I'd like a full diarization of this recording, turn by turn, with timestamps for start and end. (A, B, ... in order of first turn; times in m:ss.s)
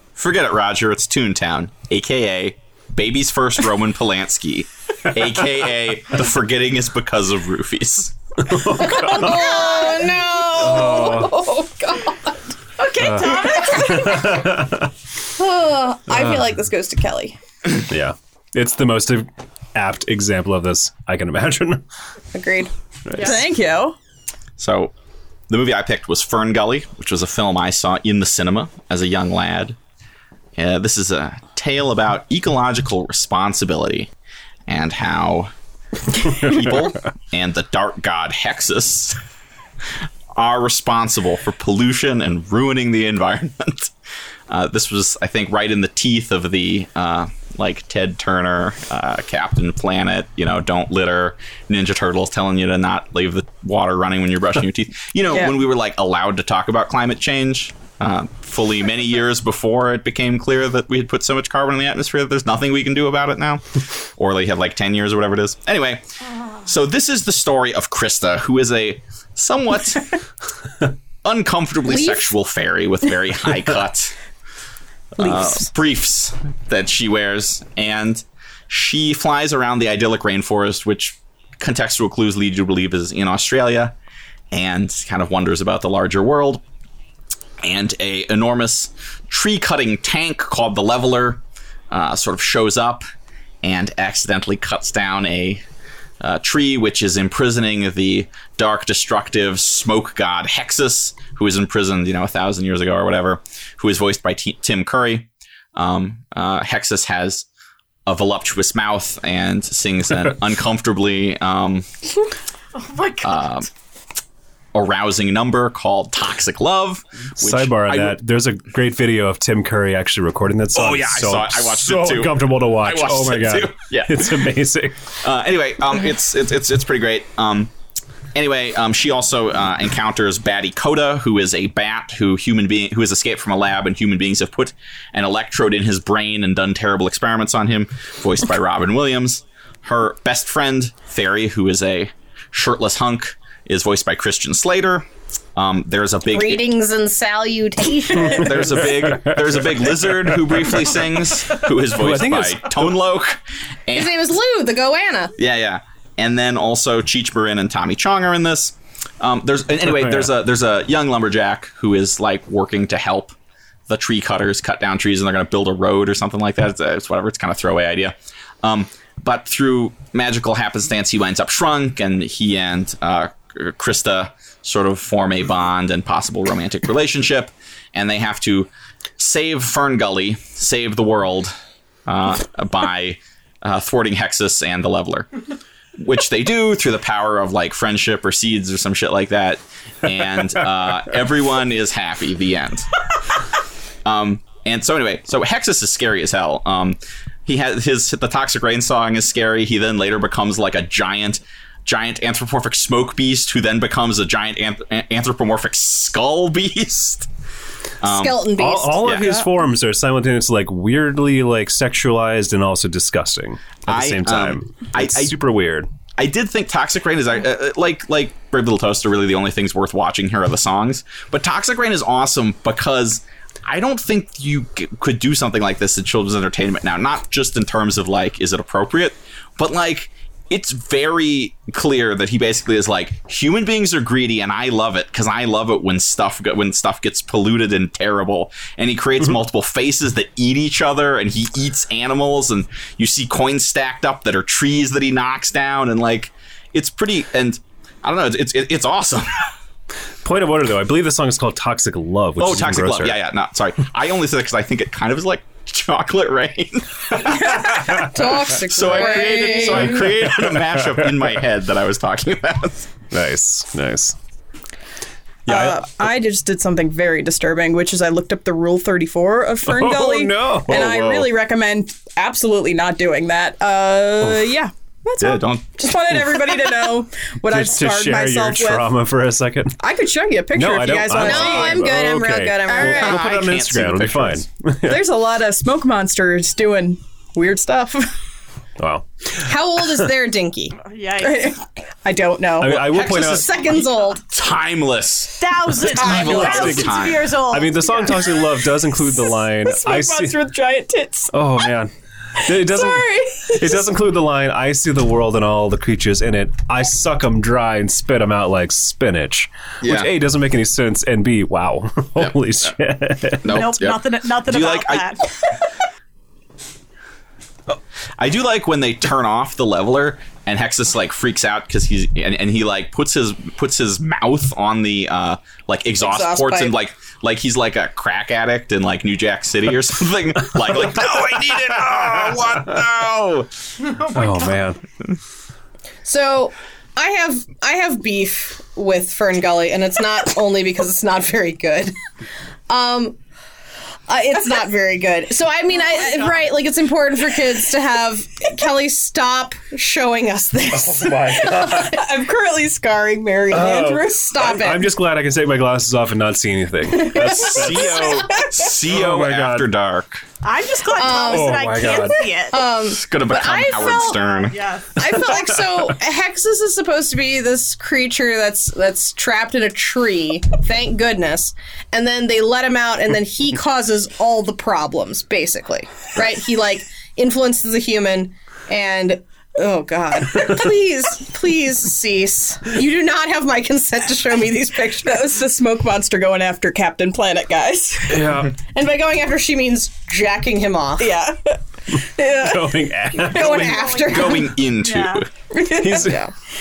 0:00.2-0:08.5 A
0:08.5-0:09.6 B
0:08.6-0:12.4 C
0:09.2-0:09.8 D
0:10.5-0:11.4 B
0:12.8-0:14.4 D
0:13.0-0:14.9 B
0:13.2-0:14.4 C
0:15.4-0:17.4 C
0:16.1-0:16.4 B
0:17.8-0:21.8 B
0:22.3-0:22.7 C
0:23.1-0:23.3 B
0:23.2-0:24.0 E
0:24.6-0:24.9 A
0:25.5-0:29.8 A
0:30.6-0:34.1 A
0:34.7-0:35.5 A
0:36.2-0:39.2 A
0:40.3-0:43.9 A
0:44.5-1:03.6 A
1:04.2-1:06.0 A
1:06.6-1:10.2 A
1:11.2-1:14.1 A
1:11.9-1:12.3 C
1:15.2-1:24.0 A
1:15.2-1:15.6 C
1:24.5-1:26.6 A
1:27.6-1:33.0 A
1:33.6-1:35.6 A
1:36.2-1:47.4 A
1:48.0-1:51.8 A
1:52.8-1:53.5 D
1:53.2-1:53.7 A
1:54.7-1:58.2 A
1:57.4-2:05.0 B
2:00.7-2:04.3 A
2:05.2-2:07.7 A
2:08.3-2:26.7 A
2:26.3-2:28.8 C
2:28.3-2:34.1 A
2:29.0-2:29.4 B
2:31.9-2:33.0 B
2:33.9-2:35.3 C
2:35.4-2:43.3 A
2:43.9-3:01.5 A
3:02.1-3:05.3 A
3:06.0-3:12.9 A
3:14.0-3:27.3 A
3:28.0-3:28.4 A
3:28.0-3:29.4 C
3:28.6-3:35.9 B
3:29.0-3:29.3 A
3:33.9-3:35.3 A
3:36.2-4:09.4 A
4:10.2-4:13.2 B
4:12.4-4:22.9 A
4:17.4-4:20.1 C
4:19.8-4:21.3 B
4:23.1-4:24.1 B
4:25.4-4:25.9 B
4:25.4-4:38.8 E
4:29.6-4:31.1 B
4:30.7-4:31.3 A
4:35.2-4:35.9 A
4:37.4-4:39.8 B
4:39.8-4:41.8 E
4:40.5-4:45.0 B
4:41.1-4:43.2 C
4:42.8-4:44.4 A
4:44.8-4:48.1 E
4:48.8-4:50.1 B
4:49.4-4:50.8 C
4:50.8-4:51.6 D
4:51.2-4:52.8 E
4:52.6-4:53.4 B
4:52.7-4:57.3 A
4:53.1-4:54.2 C
4:55.4-4:58.2 D
4:56.1-5:00.4 B
4:59.1-5:01.3 E
5:01.3-5:13.7 B
5:02.8-5:03.6 C
5:02.8-5:03.7 E
5:09.8-5:10.1 A
5:13.4-5:15.1 A
5:13.5-5:15.3 D
5:18.2-5:33.5 A
5:26.0-5:26.7 C
5:33.9-5:34.4 D
5:34.0-5:34.8 B
5:36.0-5:41.9 C
5:42.7-5:43.2 C
5:44.1-5:52.0 C
5:50.7-5:51.9 B
5:51.4-5:54.3 E
5:53.5-5:59.7 B
5:54.0-5:54.9 C
5:57.0-5:58.3 C
5:57.2-6:00.2 A
6:00.4-6:02.7 D
6:00.9-6:04.3 C
6:01.1-6:02.2 B
6:02.8-6:04.6 A
6:03.7-6:05.1 D
6:04.9-6:25.3 C
6:25.0-6:28.3 E
6:28.1-6:28.5 B
6:28.7-6:31.2 C
6:31.0-6:32.6 E
6:32.2-6:34.0 B
6:33.1-6:34.5 C
6:33.4-6:35.2 D
6:34.0-6:35.3 A
6:35.6-6:36.1 E
6:35.7-6:36.2 B
6:35.8-6:36.3 C